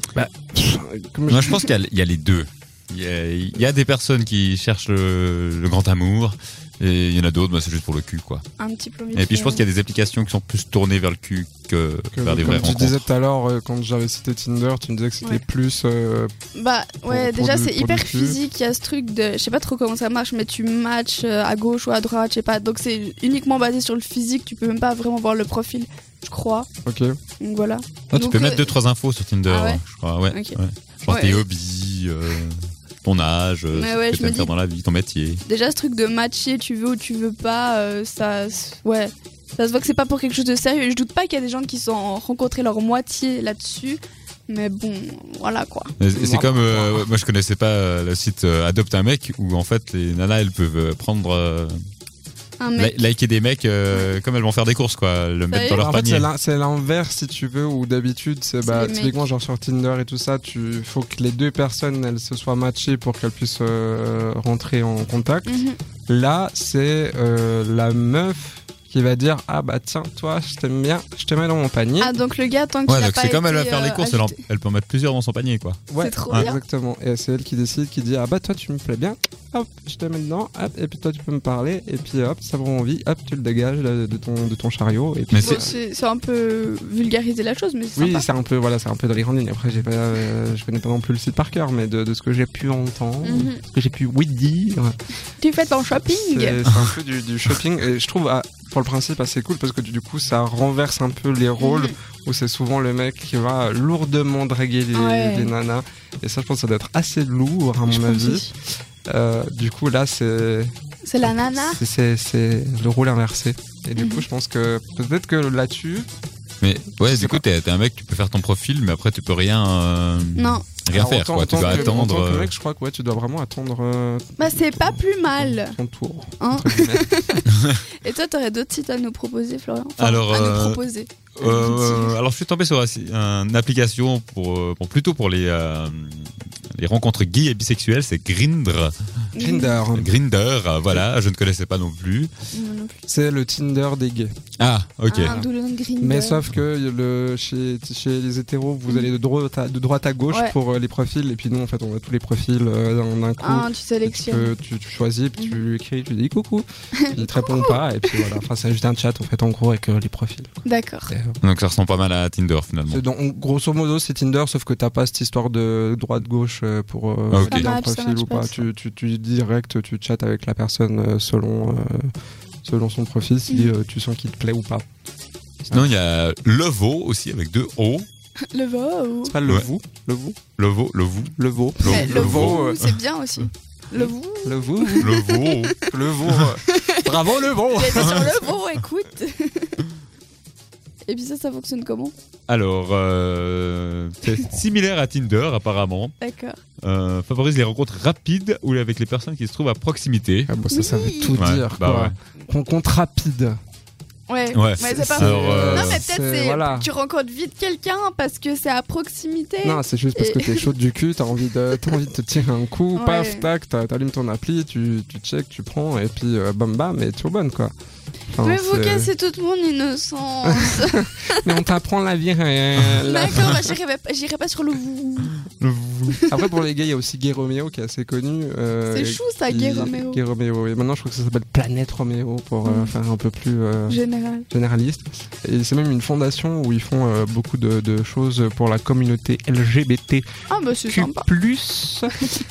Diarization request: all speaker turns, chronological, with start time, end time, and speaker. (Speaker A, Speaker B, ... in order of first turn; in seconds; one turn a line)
Speaker A: 0.1-1.7
Speaker B: 1.3-8.4
Speaker C: 8.6-9.6
Speaker B: 9.1-13.0
Speaker A: 12.2-16.3
Speaker C: 16.6-26.7
Speaker A: 17.1-18.4
Speaker A: 26.9-27.1
Speaker C: 27.4-28.7
Speaker B: 28.1-35.4
Speaker C: 29.5-31.4
Speaker C: 33.7-34.5
Speaker C: 35.5-45.9
Speaker B: 46.0-51.8
Speaker A: 46.1-47.1
Speaker C: 52.6-53.0
Speaker B: 52.8-56.3
Speaker C: 55.5-55.8
Speaker A: 55.8-65.6
Speaker C: 58.6-59.3
Speaker C: 65.5-65.8
Speaker A: 66.1-72.1
Speaker C: 72.0-74.4
Speaker B: 72.9-76.5
Speaker A: 75.9-85.7
Speaker C: 76.0-76.6
Speaker B: 85.3-85.6
Speaker C: 85.4-88.3
Speaker A: 88.0-94.9
Speaker C: 93.2-93.6
Speaker C: 95.4-96.6
Speaker A: 96.1-108.5
Speaker C: 101.6-102.0
Speaker C: 104.9-105.5
Speaker C: 107.9-108.5
Speaker A: 109.1-116.1
Speaker C: 111.0-111.8
Speaker C: 114.0-114.2
Speaker B: 116.6-122.5
Speaker A: 117.0-117.4
Speaker C: 120.4-120.7
Speaker A: 120.9-127.1
Speaker C: 121.6-122.0
Speaker C: 124.4-125.8
Speaker C: 126.4-127.5
Speaker B: 127.5-127.8
Speaker C: 128.0-132.1
Speaker B: 130.0-130.8
Speaker B: 131.4-138.9
Speaker C: 139.4-139.8
Speaker A: 139.4-140.1
Speaker B: 139.9-142.3
Speaker C: 142.5-143.0
Speaker A: 143.1-144.4
Speaker B: 144.6-145.4
Speaker C: 145.1-146.4
Speaker A: 145.2-160.5
Speaker C: 153.4-154.5
Speaker C: 157.0-158.2
Speaker C: 160.7-161.1
Speaker A: 161.1-161.4
Speaker B: 161.4-163.0
Speaker A: 162.9-172.1
Speaker B: 167.3-167.7
Speaker C: 167.4-168.6
Speaker A: 172.6-174.8
Speaker C: 173.5-173.7
Speaker A: 175.6-175.9
Speaker B: 175.7-178.1
Speaker C: 178.5-179.4
Speaker A: 179.2-180.4
Speaker B: 180.6-183.0
Speaker A: 181.4-182.6
Speaker C: 181.8-185.9
Speaker A: 183.9-185.2
Speaker B: 185.0-185.8
Speaker A: 185.9-188.4
Speaker C: 186.6-187.1
Speaker C: 187.7-189.8
Speaker B: 187.9-188.3
Speaker C: 191.1-192.1
Speaker B: 192.5-196.1
Speaker C: 196.2-196.6
Speaker B: 196.8-200.5
Speaker A: 200.5-203.6
Speaker C: 200.7-201.4
Speaker B: 201.3-202.1
Speaker C: 204.3-210.7
Speaker B: 204.5-206.0
Speaker A: 205.0-206.9
Speaker A: 209.6-217.7
Speaker C: 212.9-213.5
Speaker A: 218.3-219.1
Speaker C: 218.4-221.5
Speaker A: 220.5-223.8
Speaker C: 223.1-225.4
Speaker B: 225.6-226.2
Speaker A: 226.3-234.0
Speaker C: 228.9-230.2
Speaker C: 232.6-232.9
Speaker C: 233.9-234.5
Speaker A: 234.5-240.3
Speaker C: 240.5-241.3
Speaker A: 240.9-242.1